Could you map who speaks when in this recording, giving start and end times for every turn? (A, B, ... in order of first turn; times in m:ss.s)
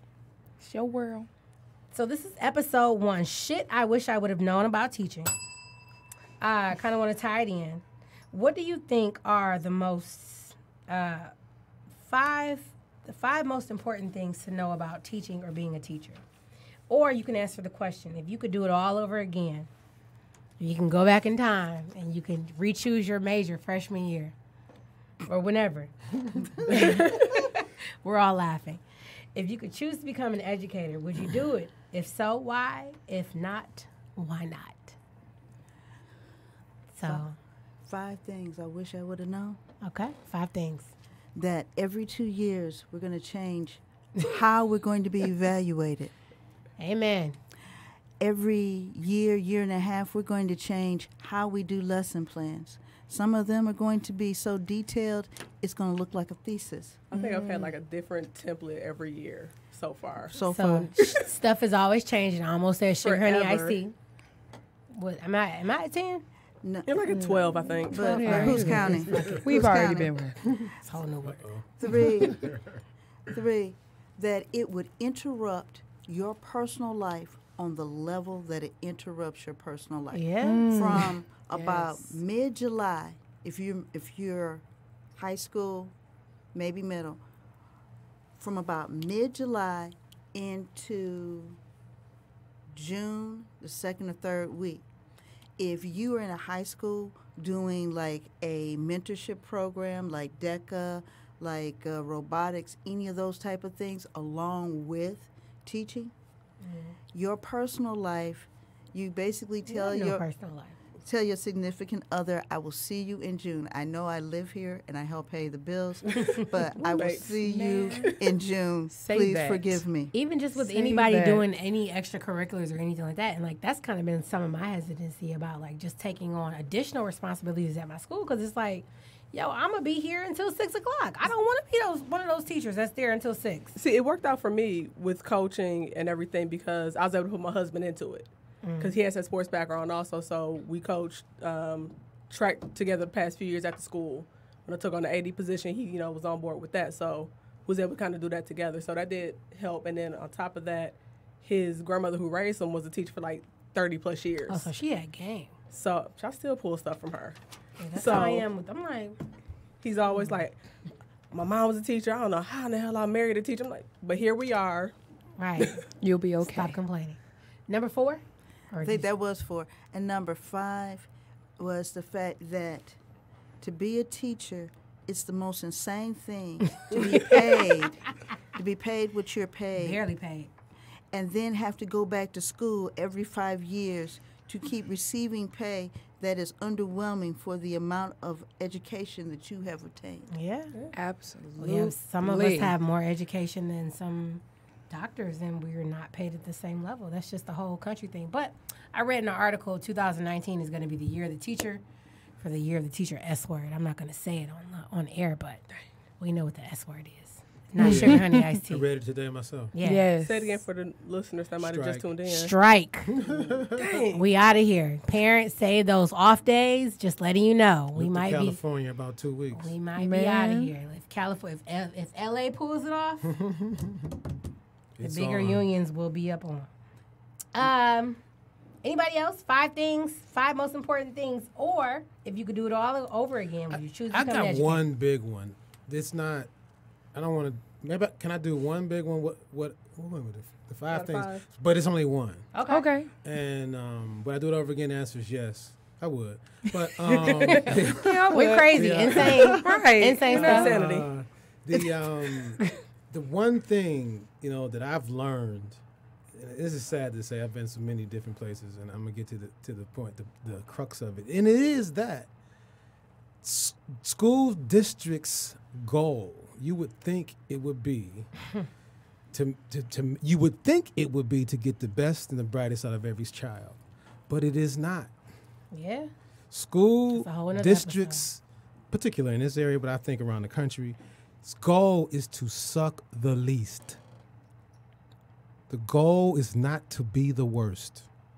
0:00.6-0:01.3 A
0:01.9-0:05.3 B
0:06.4-0:11.3 B
0:12.0-0:16.2 B
0:16.9-0:19.7 B
0:20.6-0:24.3 B
0:25.3-0:28.8 B
0:26.7-0:27.3 C
0:29.3-0:35.0 B
0:36.9-0:37.4 B
0:37.8-0:39.6 D
0:39.8-0:40.9 B
0:41.3-0:46.1 D
0:46.8-0:47.4 B
0:48.2-0:57.0 D
0:57.1-1:00.4 C
0:57.1-0:57.7 A
1:00.3-1:00.9 D
1:00.5-1:03.9 B
1:03.0-1:03.8 C
1:04.9-1:06.2 B
1:06.6-1:07.1 D
1:06.8-1:08.2 C
1:07.1-1:10.4 A
1:07.8-1:10.2 D
1:08.0-1:09.4 B
1:10.6-1:12.8 E
1:10.8-1:11.5 B
1:11.8-1:12.5 D
1:13.3-1:24.6 D
1:20.1-1:20.7 B
1:20.4-1:21.1 A
1:21.5-1:22.2 B
1:25.1-1:25.9 D
1:26.5-1:27.2 D
1:28.4-1:31.6 D
1:32.7-1:34.8 D
1:35.6-1:46.1 D
1:46.6-1:47.0 B
1:47.1-1:50.2 D
1:49.6-1:50.8 B
1:51.0-2:00.1 D
1:56.3-1:57.4 C
1:57.2-1:58.1 A
1:58.9-1:59.8 A
2:00.1-2:13.8 B
2:00.6-2:01.4 A
2:13.7-2:34.7 C
2:18.6-2:19.0 B
2:34.5-2:35.5 B
2:35.7-2:37.4 C
2:37.8-2:39.2 B
2:37.9-2:38.5 C
2:39.8-2:40.6 C
2:41.3-2:44.9 C
2:45.4-2:45.8 B
2:46.0-2:46.8 A
2:46.4-2:49.0 B
2:48.8-2:53.0 D
2:53.6-3:00.0 D
2:56.7-2:57.7 B
2:59.8-3:00.5 B
3:01.1-3:10.3 D
3:10.3-3:10.7 B
3:10.9-3:12.7 A
3:11.6-3:21.8 B
3:22.4-3:25.6 B
3:26.2-3:28.8 B
3:27.8-3:29.8 E
3:27.8-3:28.5 A
3:29.7-3:30.1 B
3:29.8-3:30.6 A
3:30.2-3:32.5 C
3:31.6-3:32.1 E
3:32.2-3:33.1 B
3:33.1-3:33.8 E
3:33.7-3:34.3 C
3:34.1-3:38.6 B
3:37.9-3:39.7 E
3:39.5-3:43.3 B
3:40.0-3:40.7 A
3:43.2-3:44.2 E
3:45.0-3:45.6 E
3:45.0-3:46.7 B
3:47.5-3:48.2 B
3:48.8-3:54.8 B
3:54.1-3:56.5 E
3:57.1-4:02.5 E
4:00.9-4:01.4 C
4:02.5-4:02.9 B
4:02.7-4:03.1 A
4:03.2-4:08.2 E
4:07.1-4:10.8 A
4:07.5-4:07.8 B
4:08.3-4:10.7 B
4:08.7-4:09.7 E
4:10.3-4:11.1 C
4:10.5-4:15.8 E
4:16.3-4:22.3 E
4:23.4-4:28.3 E
4:29.3-4:35.1 E
4:35.7-4:36.1 B
4:36.5-4:44.0 E
4:37.1-4:38.3 B
4:45.7-4:48.1 E